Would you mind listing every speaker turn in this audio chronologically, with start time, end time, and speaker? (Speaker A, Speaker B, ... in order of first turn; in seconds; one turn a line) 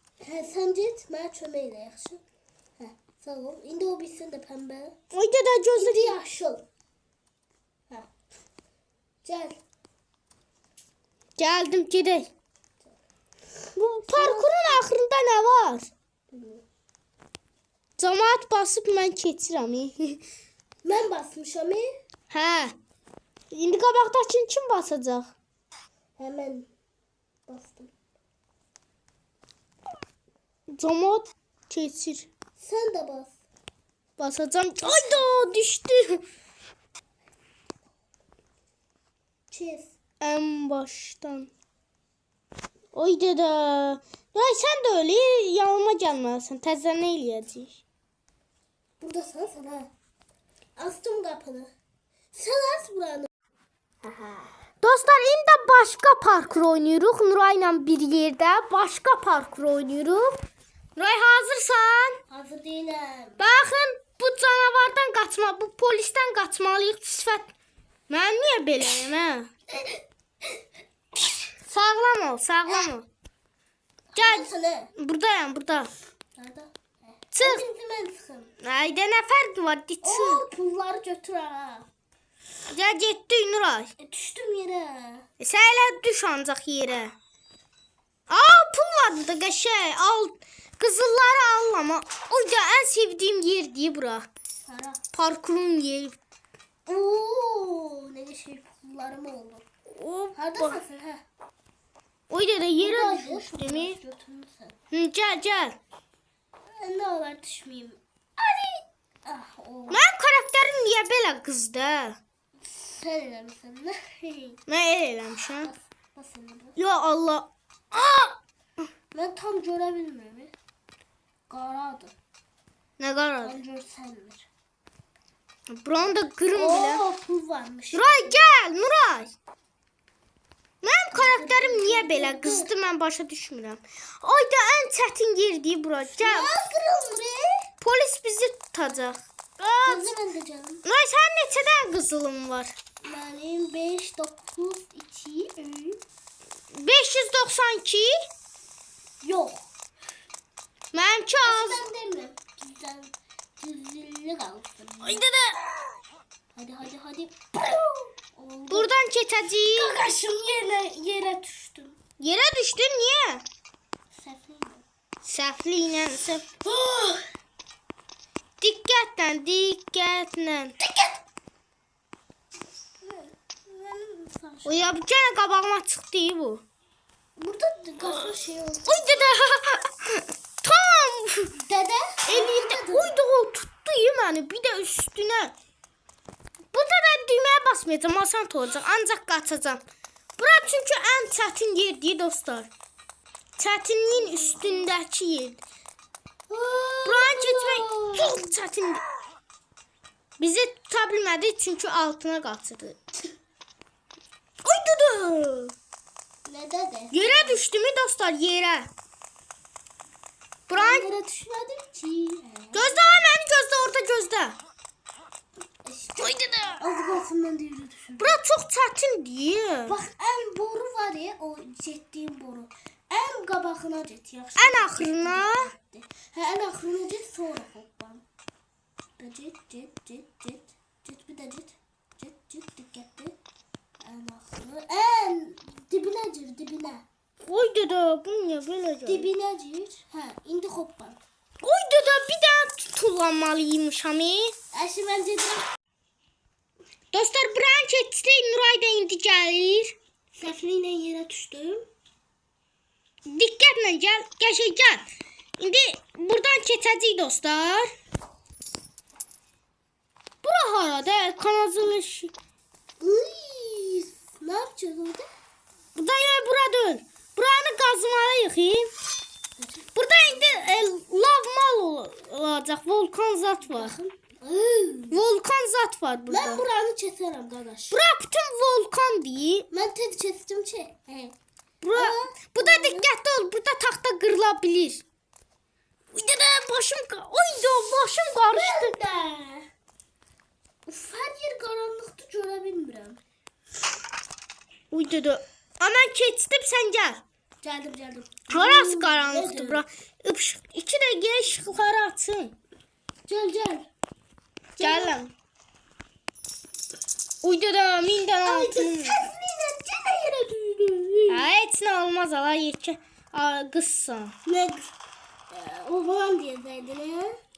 Speaker A: 0.2-2.2
Speaker A: 2.8-5.0
Speaker B: 5.1-6.2
Speaker A: 5.8-6.6
Speaker A: 9.2-9.6
Speaker B: 11.4-12.3
Speaker B: 13.8-15.9
Speaker A: 14.1-14.8
Speaker A: 16.3-16.6
Speaker B: 18.0-20.2
Speaker A: 20.8-21.9
Speaker B: 22.3-22.7
Speaker B: 23.5-25.3
Speaker A: 26.2-26.7
Speaker A: 27.5-27.9
Speaker B: 30.8-32.3
Speaker A: 32.6-33.3
Speaker B: 34.2-36.2
Speaker A: 39.5-40.0
Speaker B: 40.2-41.5
Speaker B: 42.9-47.8
Speaker A: 49.0-49.9
Speaker A: 50.8-51.7
Speaker A: 52.3-53.3
Speaker A: 54.0-54.5
Speaker B: 54.8-60.4
Speaker B: 61.0-62.2
Speaker A: 62.3-63.5
Speaker B: 63.4-67.5
Speaker B: 68.1-69.5
Speaker A: 69.7-70.0
Speaker B: 71.6-73.0
Speaker A: 74.1-74.9
Speaker B: 74.2-75.9
Speaker A: 76.3-78.5
Speaker B: 77.3-77.6
Speaker B: 78.6-80.4
Speaker A: 80.0-81.9
Speaker B: 82.7-83.9
Speaker A: 84.0-85.3
Speaker B: 85.4-87.1
Speaker B: 88.3-94.3
Speaker A: 94.7-95.0
Speaker B: 95.1-96.2
Speaker A: 96.9-99.6
Speaker B: 99.9-100.8
Speaker A: 100.3-101.2
Speaker B: 102.3-104.0
Speaker A: 102.8-104.7
Speaker B: 104.9-105.8
Speaker A: 106.7-110.0
Speaker B: 109.9-112.2
Speaker A: 112.6-114.6
Speaker B: 114.7-115.7
Speaker A: 115.6-116.8
Speaker B: 116.8-118.4
Speaker A: 119.1-120.5
Speaker A: 121.5-122.1
Speaker B: 123.0-123.5
Speaker A: 123.4-124.5
Speaker B: 125.7-127.0
Speaker A: 126.5-128.4
Speaker B: 127.9-129.3
Speaker B: 130.8-136.5
Speaker A: 131.1-132.7
Speaker A: 136.1-137.5
Speaker B: 137.8-140.1
Speaker A: 139.8-140.8
Speaker B: 140.8-142.7
Speaker A: 143.0-146.0
Speaker B: 146.7-148.1
Speaker A: 149.2-149.7
Speaker B: 150.9-151.8
Speaker A: 151.4-155.2
Speaker B: 155.0-155.6
Speaker A: 156.5-158.9
Speaker B: 158.7-159.9
Speaker A: 159.7-162.0
Speaker B: 162.2-163.4
Speaker A: 164.1-164.8
Speaker B: 165.2-166.5
Speaker A: 166.6-167.2
Speaker B: 168.6-170.8
Speaker A: 170.8-171.2
Speaker A: 173.0-174.9
Speaker B: 174.6-176.6
Speaker A: 177.4-179.3
Speaker B: 178.8-181.6
Speaker A: 181.6-183.1
Speaker B: 182.3-185.5
Speaker B: 186.7-189.8
Speaker B: 190.4-192.7
Speaker B: 193.6-195.6
Speaker A: 194.1-194.9
Speaker A: 196.5-198.4
Speaker B: 197.0-199.0
Speaker B: 200.4-203.0
Speaker B: 204.6-205.7
Speaker A: 206.4-207.6
Speaker B: 207.1-208.9
Speaker B: 210.7-211.1
Speaker A: 210.7-213.2
Speaker B: 212.7-214.6
Speaker A: 215.8-218.4
Speaker B: 216.2-216.8
Speaker B: 218.2-219.9
Speaker A: 219.9-228.2
Speaker B: 224.6-225.7
Speaker A: 229.2-233.3
Speaker A: 234.0-237.0
Speaker B: 237.4-239.3
Speaker A: 239.1-241.2
Speaker B: 241.6-244.5
Speaker A: 244.7-245.7
Speaker B: 247.1-249.9
Speaker A: 250.3-251.8
Speaker B: 253.2-255.1
Speaker B: 255.6-257.9
Speaker B: 260.4-262.3
Speaker A: 263.0-265.2
Speaker B: 265.9-268.9
Speaker A: 269.6-270.9
Speaker B: 269.9-273.9
Speaker A: 273.6-275.2
Speaker B: 275.1-276.6
Speaker A: 276.3-278.0
Speaker B: 277.9-279.7
Speaker A: 279.7-281.3
Speaker B: 281.8-285.0
Speaker A: 281.9-283.1
Speaker B: 286.1-288.9
Speaker A: 288.5-289.7
Speaker A: 290.9-293.2
Speaker B: 294.9-297.2
Speaker A: 297.6-299.8
Speaker B: 298.5-302.6
Speaker A: 303.2-303.9
Speaker A: 304.8-305.2
Speaker B: 304.8-305.3
Speaker B: 307.4-309.2
Speaker A: 308.4-311.5
Speaker B: 311.3-314.3
Speaker A: 314.4-314.9
Speaker A: 315.5-317.3